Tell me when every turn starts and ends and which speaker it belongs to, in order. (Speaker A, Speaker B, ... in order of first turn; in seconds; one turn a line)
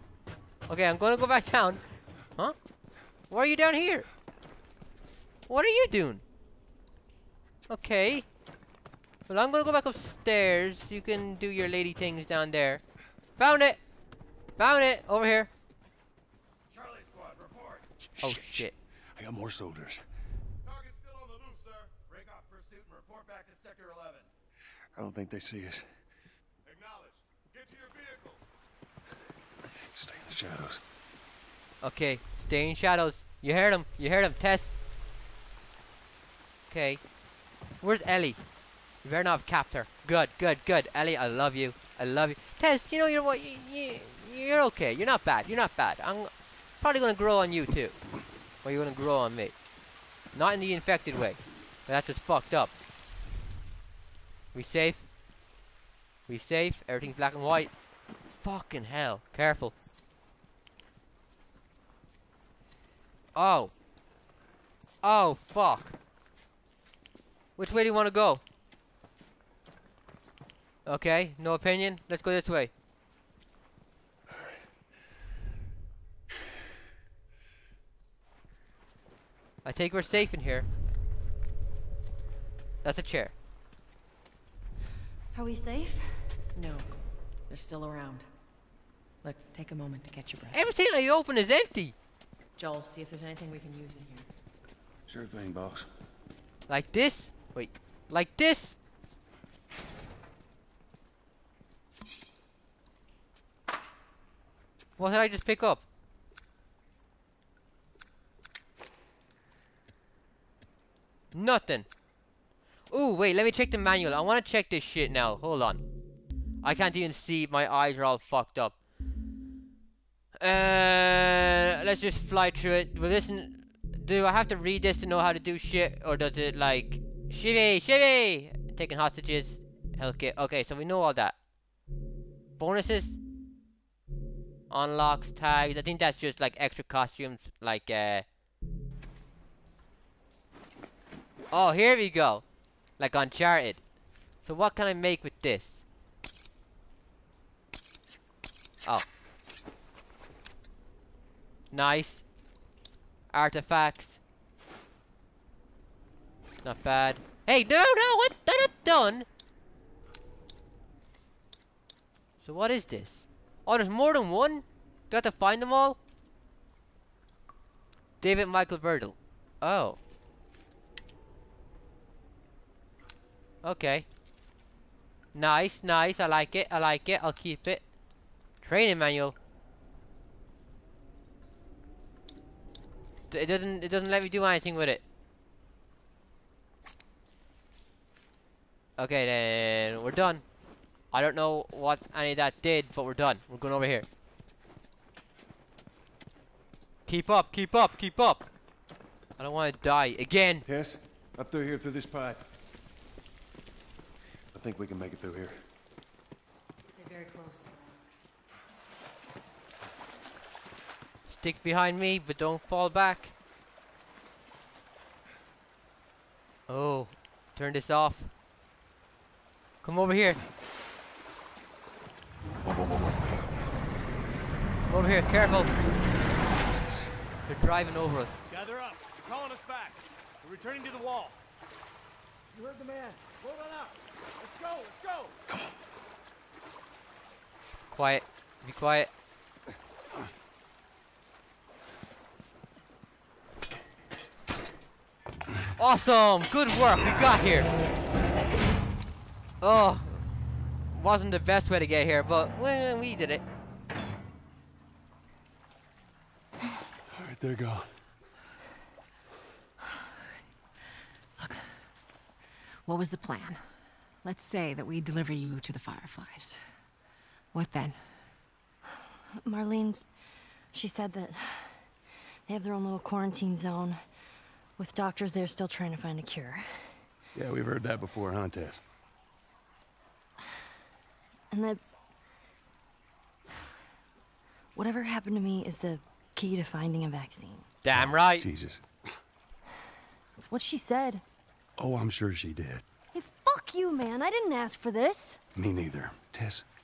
Speaker A: 0.7-1.8
Speaker A: 3.3-4.1
Speaker A: 5.5-6.2
Speaker A: 7.7-8.2
Speaker A: 9.3-12.8
Speaker A: 13.4-13.8
Speaker A: 14.6-15.5
Speaker B: 16.7-17.8
Speaker C: 18.1-20.0
Speaker A: 18.2-18.7
Speaker B: 20.6-24.3
Speaker C: 24.9-25.9
Speaker B: 26.6-28.4
Speaker C: 29.8-30.8
Speaker A: 31.8-34.8
Speaker A: 36.7-37.0
Speaker A: 37.8-38.4
Speaker A: 39.0-48.0
Speaker A: 48.6-49.5
Speaker A: 50.3-52.7
Speaker A: 54.5-55.1
Speaker A: 56.3-57.7
Speaker A: 58.3-59.7
Speaker A: 63.3-63.7
Speaker A: 65.0-65.9
Speaker A: 67.6-68.4
Speaker A: 70.8-72.7
Speaker A: 79.6-80.7
Speaker A: 82.8-83.3
Speaker D: 85.3-86.5
Speaker E: 86.5-88.3
Speaker E: 89.2-90.6
Speaker A: 90.5-91.9
Speaker E: 92.6-94.3
Speaker C: 95.1-95.9
Speaker A: 96.7-98.8
Speaker A: 105.0-105.8
Speaker A: 111.3-111.9
Speaker A: 112.9-115.8
Speaker A: 116.6-118.8
Speaker A: 120.4-131.3
Speaker A: 132.6-133.2
Speaker A: 134.7-138.3
Speaker A: 141.5-142.4
Speaker A: 143.0-143.8
Speaker A: 144.4-145.8
Speaker A: 151.7-152.2
Speaker A: 153.3-154.2
Speaker A: 156.6-159.3
Speaker A: 162.4-166.0
Speaker A: 168.2-170.0
Speaker A: 173.6-174.1
Speaker A: 175.3-177.8
Speaker A: 178.6-179.3
Speaker A: 183.3-185.0
Speaker A: 189.0-190.4
Speaker A: 191.1-194.1
Speaker A: 197.1-198.5
Speaker A: 199.4-200.6
Speaker C: 200.6-202.4
Speaker C: 204.5-205.6
Speaker E: 206.9-207.9
Speaker A: 211.3-213.3
Speaker A: 216.7-218.3
Speaker A: 219.8-220.4
Speaker A: 224.9-225.7
Speaker C: 226.7-227.1
Speaker A: 227.4-228.4
Speaker B: 228.5-231.4
Speaker B: 232.7-233.8
Speaker B: 234.4-235.3
Speaker A: 237.9-239.1
Speaker A: 245.8-247.7
Speaker A: 249.6-250.2
Speaker A: 250.9-253.4
Speaker C: 257.1-257.9
Speaker E: 261.4-261.8
Speaker E: 262.9-263.6
Speaker E: 264.2-266.6
Speaker E: 267.5-268.0
Speaker D: 269.4-270.1
Speaker D: 270.7-271.9
Speaker D: 272.5-274.0
Speaker D: 274.8-277.0
Speaker C: 277.3-278.8
Speaker D: 281.5-281.8
Speaker D: 284.7-287.6
Speaker A: 287.8-288.5
Speaker C: 287.9-289.1
Speaker D: 290.4-291.2
Speaker C: 291.8-292.8
Speaker D: 293.1-295.4
Speaker C: 295.5-296.6